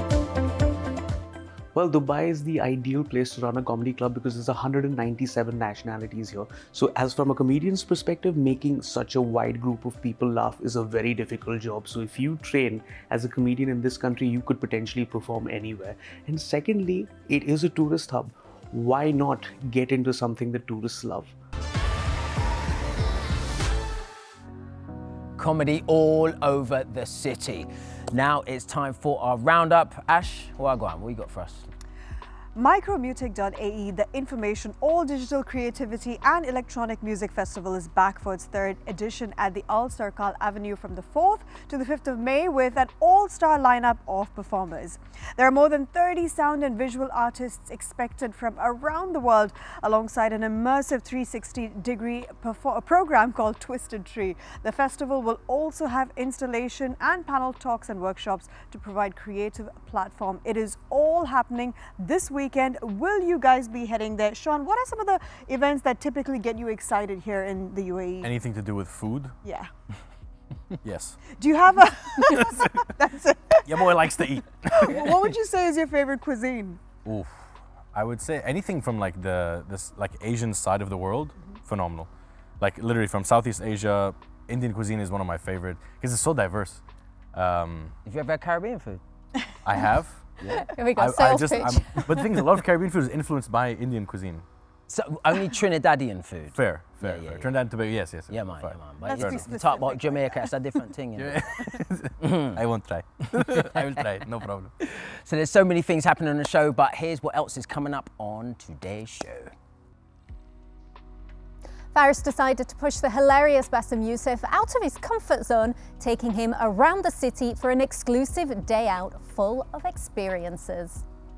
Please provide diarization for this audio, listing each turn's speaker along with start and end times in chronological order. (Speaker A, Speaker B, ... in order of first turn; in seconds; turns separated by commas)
Speaker A: 1.7-21.3, Speaker B: 25.4-31.7, Speaker C: 32.5-68.3, Speaker D: 68.2-69.3, Speaker C: 69.4-69.7, Speaker D: 70.8-71.2, Speaker C: 71.3-76.8, Speaker D: 72.2-72.9, Speaker D: 73.7-75.3, Speaker D: 77.0-82.1, Speaker D: 82.6-86.8, Speaker D: 87.3-87.9, Speaker B: 88.0-89.0, Speaker D: 89.6-90.4, Speaker B: 90.4-90.7, Speaker E: 90.5-92.3, Speaker D: 90.9-94.4, Speaker B: 94.9-97.6, Speaker D: 96.5-99.5, Speaker B: 98.3-101.5, Speaker C: 99.0-100.8, Speaker D: 101.2-104.7, Speaker B: 102.2-102.6, Speaker B: 104.8-109.5, Speaker E: 111.9-121.0